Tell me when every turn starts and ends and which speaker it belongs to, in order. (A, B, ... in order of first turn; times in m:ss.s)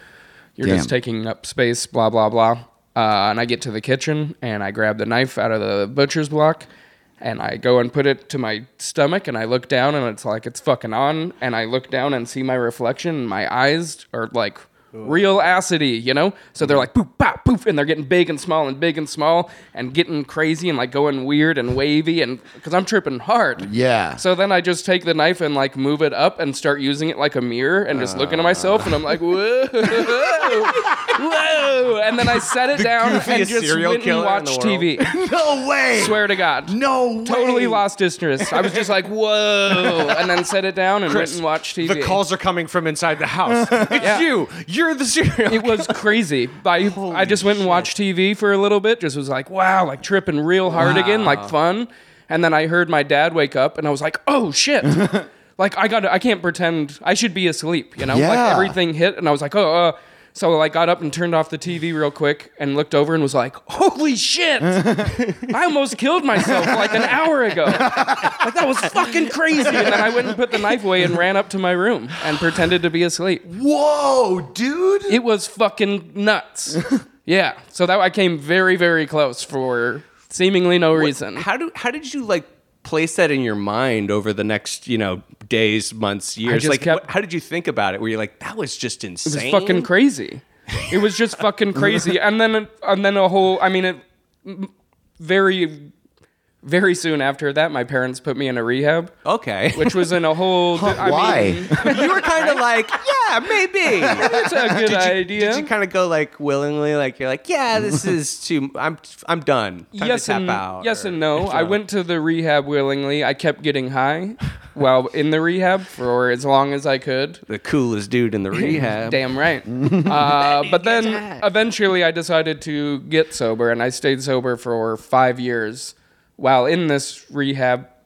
0:00.6-0:06.7 A
0:00.6-0:00.9 B
0:07.2-0:35.2 A
0:14.9-0:15.4 C
0:23.6-0:24.2 B
0:27.9-0:29.2 C
0:32.7-0:35.0 C
0:35.0-0:37.8 B
0:36.0-0:42.2 A
0:41.1-0:46.0 C
0:43.5-0:44.0 B
0:44.0-0:44.3 A
0:45.5-1:13.4 A
0:46.8-0:47.9 C
0:50.7-0:51.5 C
0:58.0-0:58.8 B
1:04.6-1:05.4 B
1:06.4-1:07.1 B
1:07.7-1:08.4 B
1:08.4-1:10.2 C
1:09.6-1:10.3 B
1:13.4-1:15.2 B
1:15.1-1:21.4 A
1:20.9-1:29.9 C
1:26.4-1:27.0 A
1:29.2-1:35.9 A
1:36.6-1:39.1 A
1:39.2-1:40.2 C
1:39.7-1:42.6 A
1:40.7-1:42.1 B
1:41.8-1:51.8 C
1:44.1-1:44.9 B
1:44.1-1:45.7 A
1:49.9-1:57.4 A
1:57.5-1:59.2 C
1:58.5-2:07.9 A
2:00.0-2:01.5 C